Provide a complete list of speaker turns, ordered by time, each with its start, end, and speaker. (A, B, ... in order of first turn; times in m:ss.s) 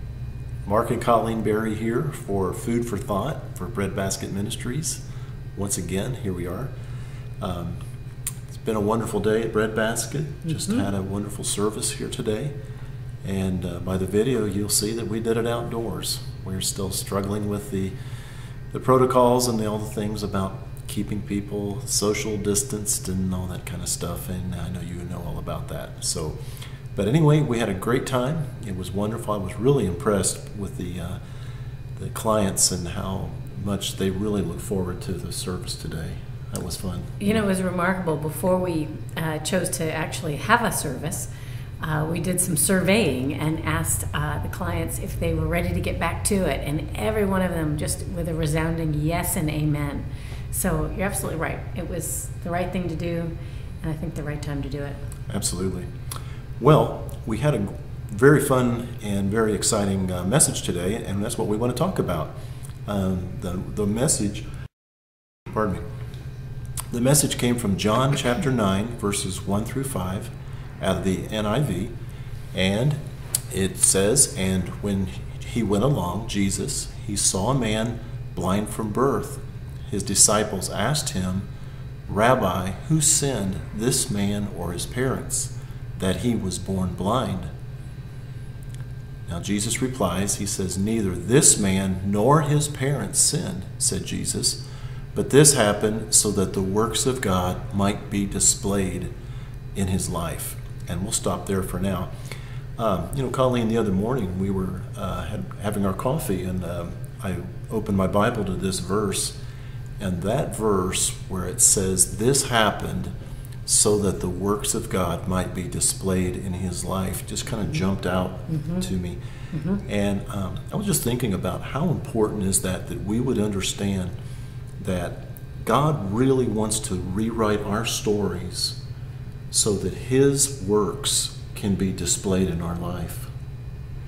0:00.6-0:05.0 A
0:05.6-0:06.7 A
0:07.4-0:07.8 A
0:08.5-0:12.5 A
0:10.5-0:10.8 B
0:13.2-0:18.0 A
0:18.7-0:26.4 A
0:26.9-0:31.2 A
0:32.0-0:37.4 A
0:37.2-0:41.3 B
0:41.8-0:55.0 B
0:55.3-0:55.9 A
0:56.6-1:02.4 A
1:02.9-1:04.5 A
1:05.5-1:05.8 A
1:06.9-1:11.9 A
1:12.5-1:21.5 A
1:22.1-1:27.5 A
1:29.3-1:34.6 A
1:35.2-1:39.1 A
1:39.8-1:42.1 A
1:42.8-1:49.4 A
1:50.0-1:53.1 A
1:53.7-1:59.2 A
1:58.5-1:58.8 B
1:59.5-1:59.8 B
1:59.8-2:04.1 A
2:04.8-2:08.8 A
2:09.5-2:13.3 A